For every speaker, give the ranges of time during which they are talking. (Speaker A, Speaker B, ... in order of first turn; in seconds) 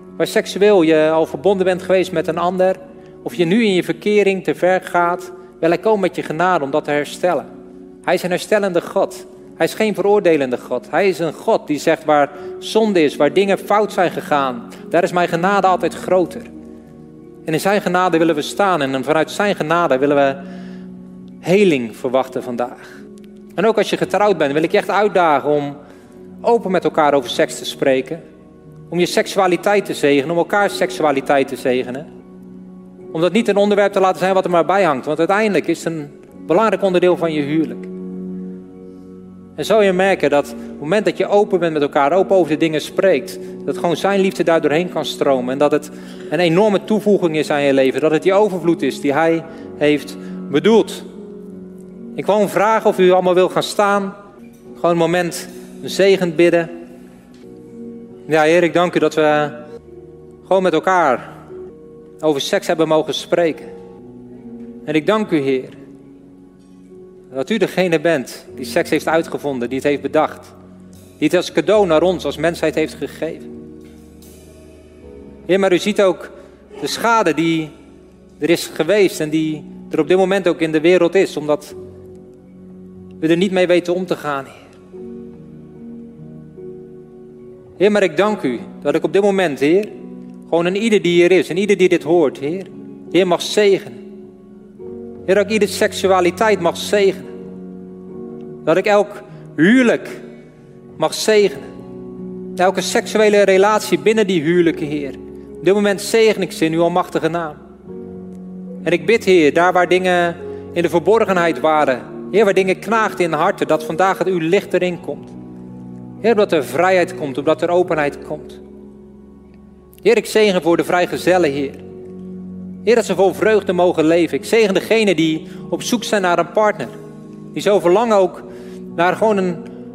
Speaker A: 0.2-7.5, 8.0-16.5, 17.4-20.4, 21.4-22.8, 23.6-25.8, 26.4-28.2, 28.9-32.1, 33.1-37.9, 39.6-51.1, 52.1-54.1, 54.8-56.7, 58.3-59.6, 60.5-61.3, 62.2-63.7, 64.8-65.8, 67.3-70.5, 71.2-73.5, 75.5-77.7, 78.4-81.7, 83.2-84.6, 87.8-89.9, 90.5-94.0, 95.3-97.3, 98.6-100.2, 101.0-101.7, 102.5-107.6, 108.8-115.3, 116.2-118.6, 120.0-121.8, 122.8-126.9, 127.5-129.7